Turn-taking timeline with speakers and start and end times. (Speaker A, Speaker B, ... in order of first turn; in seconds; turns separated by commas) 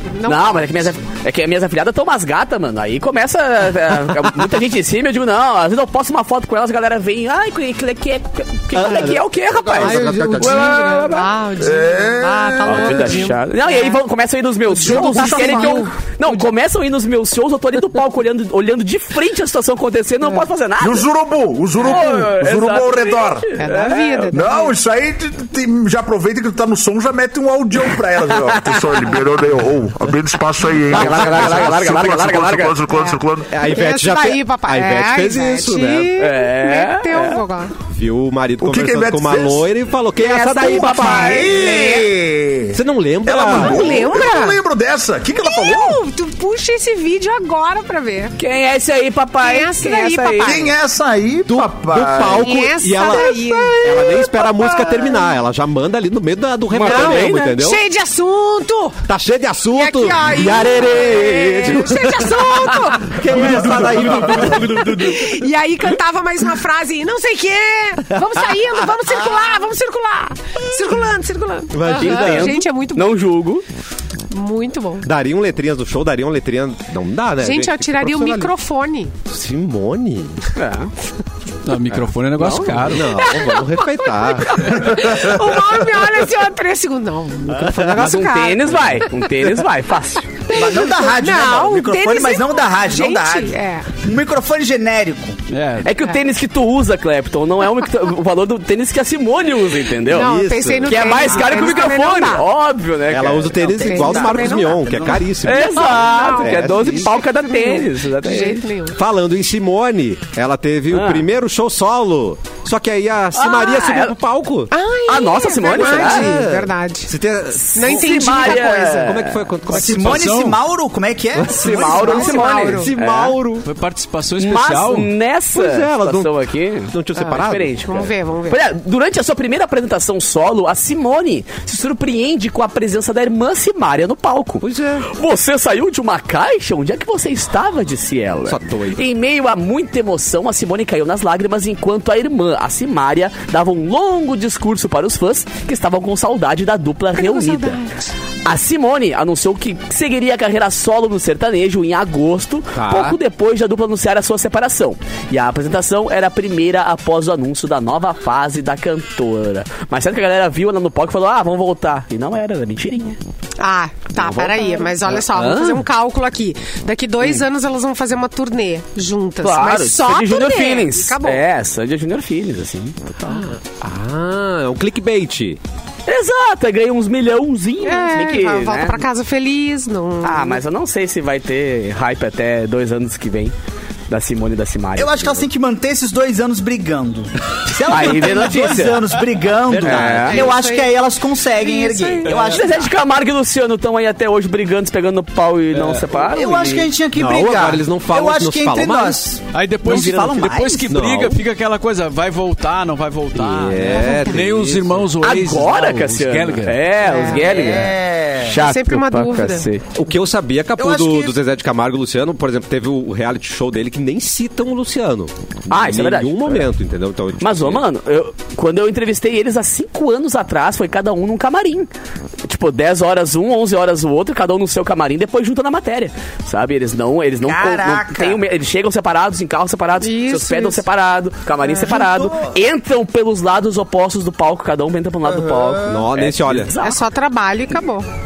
Speaker A: 0.1-0.9, Speaker B: 0.2-11.3, Speaker C: 8.7-11.0, Speaker A: 9.8-14.0, Speaker D: 11.6-13.1, Speaker B: 12.6-21.1, Speaker A: 14.8-15.9, Speaker D: 14.8-15.9, Speaker D: 20.8-23.5, Speaker B: 21.8-24.3, Speaker A: 23.6-24.7, Speaker D: 24.3-33.5, Speaker C: 30.9-31.9, Speaker B: 30.9-32.8, Speaker A: 32.9-37.7, Speaker C: 33.5-36.2, Speaker B: 36.2-37.4, Speaker C: 37.9-41.6, Speaker D: 38.6-39.6, Speaker B: 40.2-42.0, Speaker A: 40.9-41.8, Speaker D: 40.9-46.0, Speaker E: 41.3-42.1, Speaker C: 42.7-44.0, Speaker A: 43.5-44.6, Speaker A: 45.4-48.4, Speaker B: 48.4-50.6, Speaker A: 49.4-50.7, Speaker E: 50.4-52.3, Speaker D: 50.5-51.0, Speaker C: 51.5-57.8, Speaker D: 52.0-52.4, Speaker A: 52.2-55.2, Speaker B: 56.7-57.6, Speaker A: 56.8-59.0, Speaker C: 59.1-65.4, Speaker A: 59.7-73.2, Speaker D: 63.5-64.5, Speaker C: 71.7-72.6, Speaker B: 72.0-73.6, Speaker A: 74.3-75.1, Speaker C: 75.0-78.5, Speaker A: 77.4-79.1, Speaker C: 79.3-80.5, Speaker B: 80.5-80.9, Speaker F: 81.6-83.2, Speaker B: 82.4-82.9, Speaker C: 82.9-84.8, Speaker A: 83.1-89.2, Speaker D: 84.9-85.3, Speaker C: 87.5-88.2, Speaker B: 87.9-90.3, Speaker A: 90.5-93.9, Speaker E: 90.5-95.4, Speaker F: 95.5-95.9, Speaker B: 95.8-100.3, Speaker C: 100.1-101.4, Speaker A: 100.1-102.5, Speaker B: 100.8-103.7, Speaker C: 103.1-107.2, Speaker E: 103.5-105.3, Speaker A: 103.8-104.9, Speaker B: 105.4-108.6, Speaker A: 105.5-109.0, Speaker C: 108.9-114.7, Speaker B: 110.9-111.2, Speaker B: 113.3-114.1, Speaker A: 114.7-117.1, Speaker B: 115.1-116.3, Speaker C: 115.7-120.5, Speaker B: 117.7-119.4, Speaker A: 117.7-119.2, Speaker E: 119.7-122.5, Speaker F: 119.7-120.6, Speaker C: 121.3-121.8, Speaker B: 121.5-123.4, Speaker A: 121.7-122.9, Speaker C: 122.5-123.7, Speaker F: 123.6-125.1, Speaker B: 124.4-147.8, Speaker C: 125.5-126.4, Speaker C: 126.9-127.8, Speaker A: 127.2-128.6, Speaker C: 134.6-135.1, Speaker C: 138.4-139.1, Speaker A: 147.1-148.1, Speaker B: 148.4-163.2, Speaker C: 152.7-153.2, Speaker A: 163.6-171.4, Speaker B: 164.2-165.2, Speaker C: 165.3-165.8, Speaker B: 169.4-173.5, Speaker C: 173.2-175.6, Speaker B: 176.1-179.0, Speaker A: 177.8-180.6, Speaker B: 180.2-183.5, Speaker B: 184.1-185.4, Speaker E: 185.0-192.9, Speaker B: 187.8-190.5, Speaker C: 189.7-190.5, Speaker A: 190.3-191.0, Speaker A: 191.5-192.8, Speaker B: 192.2-196.9, Speaker F: 192.3-192.6, Speaker F: 195.7-196.1, Speaker E: 196.1-200.9, Speaker C: 197.1-199.2, Speaker F: 199.5-206.9, Speaker C: 200.9-201.4, Speaker C: 203.3-205.1, Speaker A: 203.9-204.4, Speaker B: 205.2-209.8, Speaker A: 207.0-207.9, Speaker E: 207.1-208.6, Speaker A: 208.5-209.7, Speaker C: 209.9-217.8, Speaker E: 210.8-211.3, Speaker B: 215.7-216.7, Speaker B: 217.4-221.9, Speaker B: 222.4-237.0, Speaker E: 227.4-228.4, Speaker A: 230.0-230.8, Speaker A: 231.6-231.9, Speaker E: 231.8-232.6, Speaker E: 235.2-236.1, Speaker C: 235.9-236.7, Speaker A: 236.8-238.1